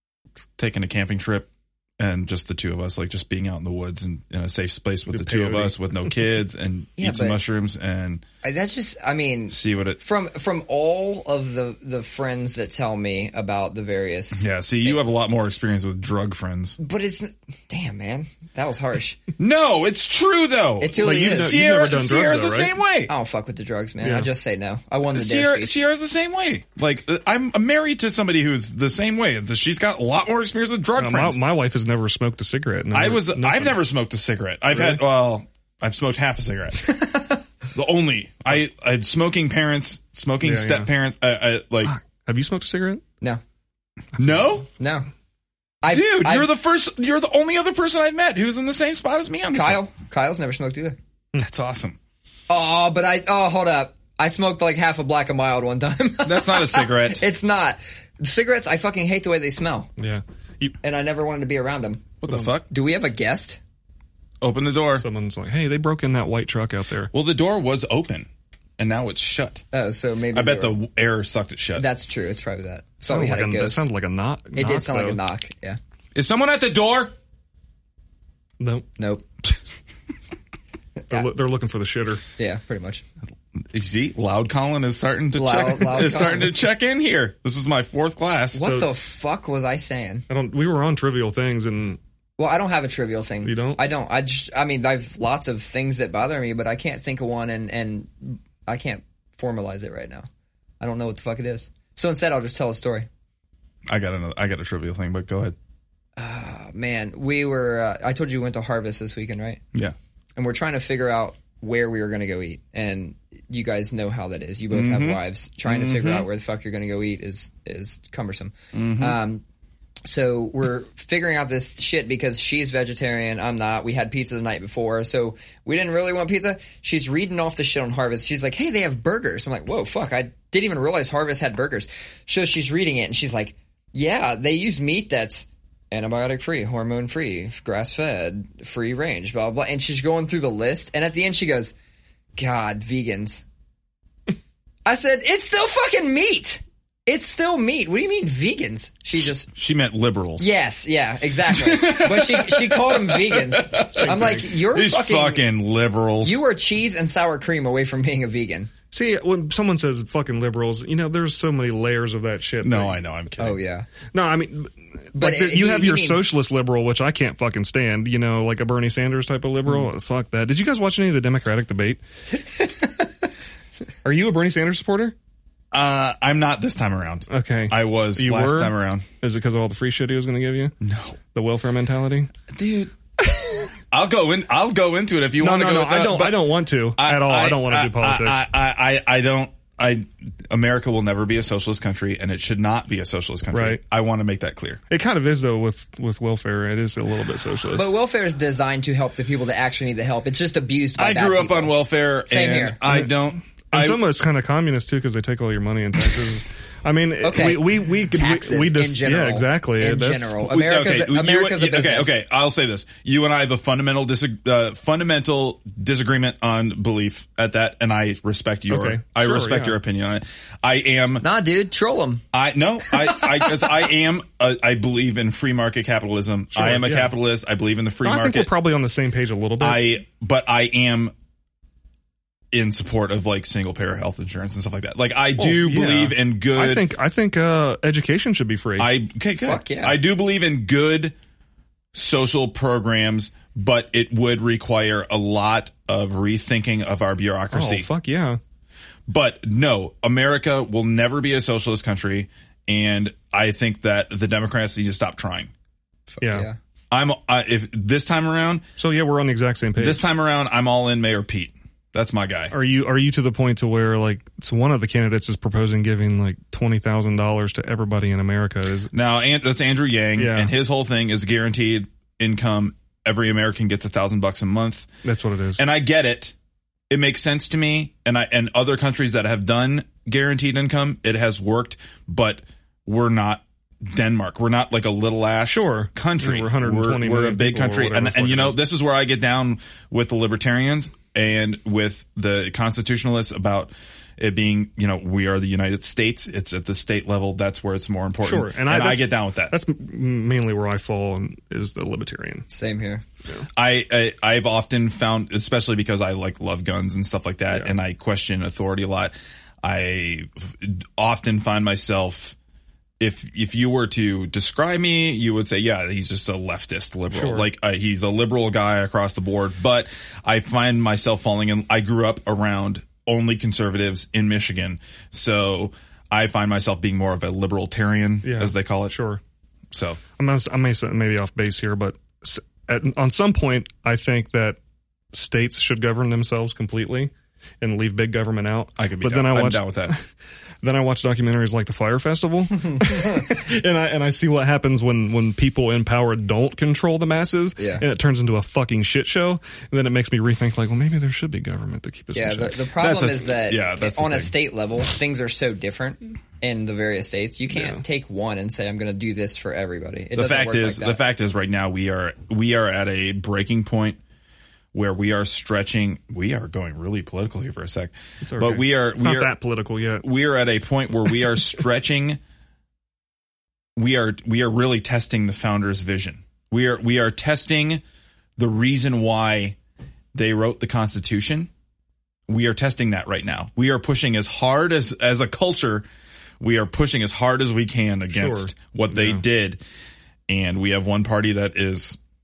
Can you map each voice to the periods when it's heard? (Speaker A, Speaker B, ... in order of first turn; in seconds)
Speaker A: 0.6-8.2, 9.5-10.0, 14.4-16.8, 19.4-23.1, 25.1-31.4, 32.9-36.9, 37.7-41.9, 44.2-44.7, 45.9-49.8, 51.4-52.0, 56.2-57.2, 62.2-62.7, 64.4-65.0, 67.1-68.3, 68.8-69.7, 70.3-71.9, 76.2-77.2, 83.7-88.6, 103.9-105.5, 114.7-116.3, 118.7-119.2, 149.5-150.5, 151.5-156.4, 162.6-163.6, 175.7-179.1, 180.8-181.2, 182.5-182.9, 183.9-194.8, 201.0-204.0, 210.4-221.2, 222.3-228.5, 229.6-231.1, 232.5-236.8, 238.8-241.2, 241.9-247.9, 249.1-255.5, 256.9-258.6, 259.8-262.5, 268.9-274.9, 275.6-276.3, 276.9-299.6, 303.6-312.4, 313.0-329.0, 329.7-330.0, 338.8-339.9, 352.8-354.3, 360.1-364.0, 364.7-369.3, 370.0-372.2, 373.8-377.8, 378.4-379.6, 380.1-381.5, 382.3-385.9, 386.4-389.6, 390.3-392.0
Speaker B: 5.1-5.8, 21.0-22.7, 24.0-24.3, 31.0-33.8, 34.7-35.0, 40.4-40.9, 41.9-43.0, 60.0-60.8, 65.0-67.1, 73.0-75.2, 78.6-78.9, 81.1-82.2, 88.6-88.9, 90.3-92.0, 93.4-93.8, 158.9-163.0, 164.1-172.0, 174.0-175.2, 177.3-180.7, 181.3-182.3, 185.4-188.4, 193.5-193.8, 194.9-197.9, 202.9-203.2, 203.7-210.4, 218.7-219.8, 226.5-227.1, 228.0-229.9, 235.4-238.9, 247.5-248.4, 256.2-256.5, 258.8-260.0, 262.5-268.9, 270.2-270.5, 275.0-275.6, 285.5-288.6, 298.2-302.5, 317.1-317.5, 328.2-329.2, 330.2-334.6, 335.1-340.0, 340.6-352.6, 357.5-357.8, 368.2-370.1, 388.1-389.2
Speaker C: 7.0-7.4, 8.4-15.0, 16.8-19.2, 20.8-21.6, 23.1-25.8, 36.9-37.4, 44.8-45.1, 45.8-46.5, 49.5-51.0, 52.5-59.9, 60.8-63.6, 69.7-70.8, 71.8-73.9, 74.6-75.8, 79.0-79.2, 82.4-83.0, 85.3-86.5, 88.5-90.3, 92.4-100.3, 100.8-103.1, 106.2-109.6, 110.4-119.4, 120.0-141.7, 142.4-143.4, 144.9-149.5, 150.4-155.4, 156.2-158.7, 163.4-163.9, 165.2-166.3, 197.7-201.7, 202.3-202.8, 207.2-212.1, 221.2-222.2, 223.0-223.6, 239.4-240.0, 256.2-256.6, 302.5-303.0, 347.6-347.8, 352.1-361.0